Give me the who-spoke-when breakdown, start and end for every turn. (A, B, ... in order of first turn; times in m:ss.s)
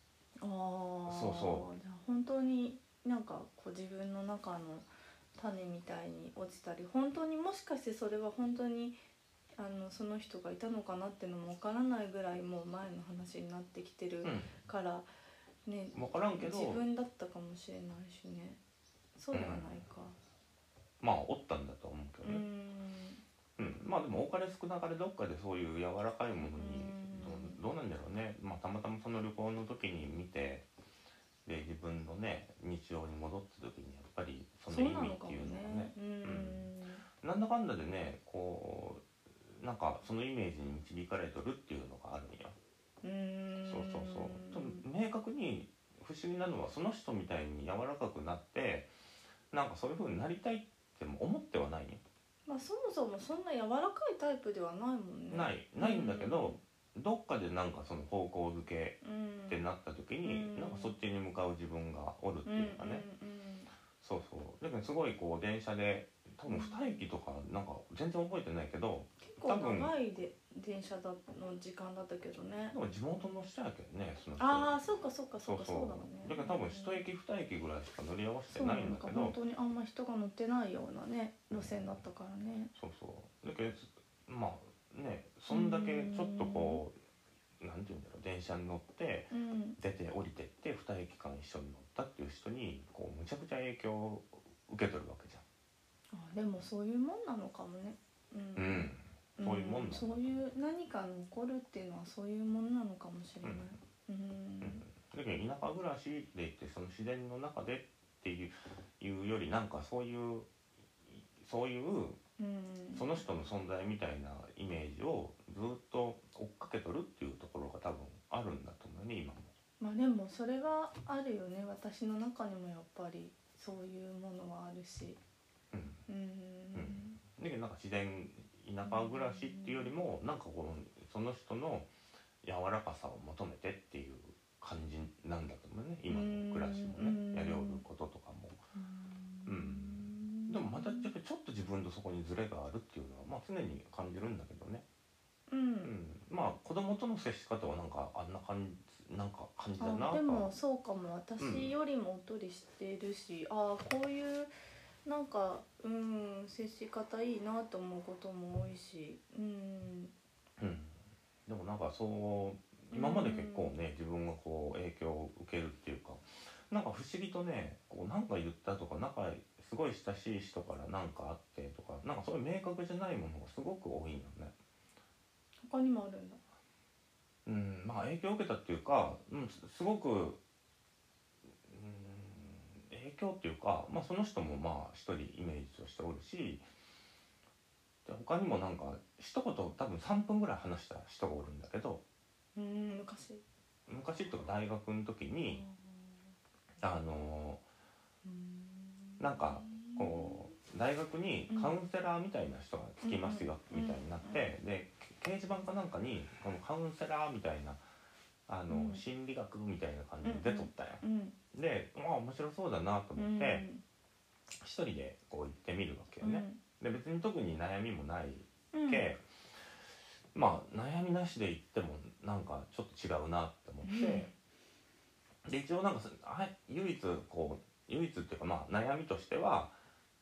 0:00.4-0:09.0 A
0:01.1-0:01.7 B
0:09.6-0:15.1 A
0:14.2-0:14.5 B
0:15.6-0:18.6 A
0:15.9-0:16.8 B
0:19.2-0:20.2 A
0:19.3-0:19.7 B
0:21.0-0:22.4 B
0:22.2-0:23.2 A
0:23.6-0:30.6 B
0:26.6-0:27.6 A
0:31.4-0:36.7 B
0:34.7-0:37.0 A
0:37.2-0:42.6 B
0:43.0-0:44.8 A
0:43.6-0:48.9 B
0:49.5-0:52.0 B
0:52.4-0:56.6 A
0:55.3-1:03.0 B
0:59.0-0:59.6 A
1:00.2-1:01.0 A
1:02.4-1:03.7 A
1:04.0-1:09.9 B
1:06.5-1:07.0 A
1:09.2-1:12.8 A
1:12.7-1:14.8 B
1:14.4-1:17.0 A
1:15.4-1:19.4 B
1:18.5-1:22.7 A
1:21.5-1:21.8 B
1:22.7-1:27.0 B
1:25.5-1:26.8 A
1:27.6-1:35.4 B
1:29.3-1:29.8 A
1:36.1-1:44.8 A
1:38.6-1:40.4 B
1:43.4-1:43.7 B
1:44.6-1:50.5 B
1:51.1-1:52.2 B
1:52.4-1:53.2 A
1:52.9-1:59.5 B
1:59.8-2:05.2 A
2:05.7-2:06.0 B
2:06.1-2:07.2 A
2:06.7-2:11.9 B
2:08.8-2:09.9 A
2:12.4-2:18.6 B
2:16.1-2:17.8 A
2:18.7-2:21.1 A
2:19.4-2:24.8 B
2:25.5-2:25.9 A
2:25.8-2:30.5 B
2:29.8-2:34.5 A
2:31.4-2:31.7 B
2:35.0-2:40.1 A
2:40.6-2:54.5 B
2:42.9-2:43.8 A
2:55.6-2:56.4 A
2:57.4-3:00.4 B
3:01.6-3:06.7 B
3:08.0-3:12.0 B
3:12.5-3:13.4 A
3:13.9-3:15.6 B
3:15.5-3:16.3 A
3:16.8-3:17.6 B
3:18.2-3:20.5 A
3:19.2-3:27.8 B
3:21.5-3:21.8 A
3:23.0-3:24.5 A
3:28.5-3:33.6 B
3:28.7-3:29.0 A
3:30.2-3:31.4 A
3:33.2-3:33.8 A
3:34.6-3:39.2 B
3:36.2-3:36.6 A
3:38.7-3:39.1 A
3:40.3-3:44.3 B
3:43.8-3:44.3 A
3:45.4-3:49.8 B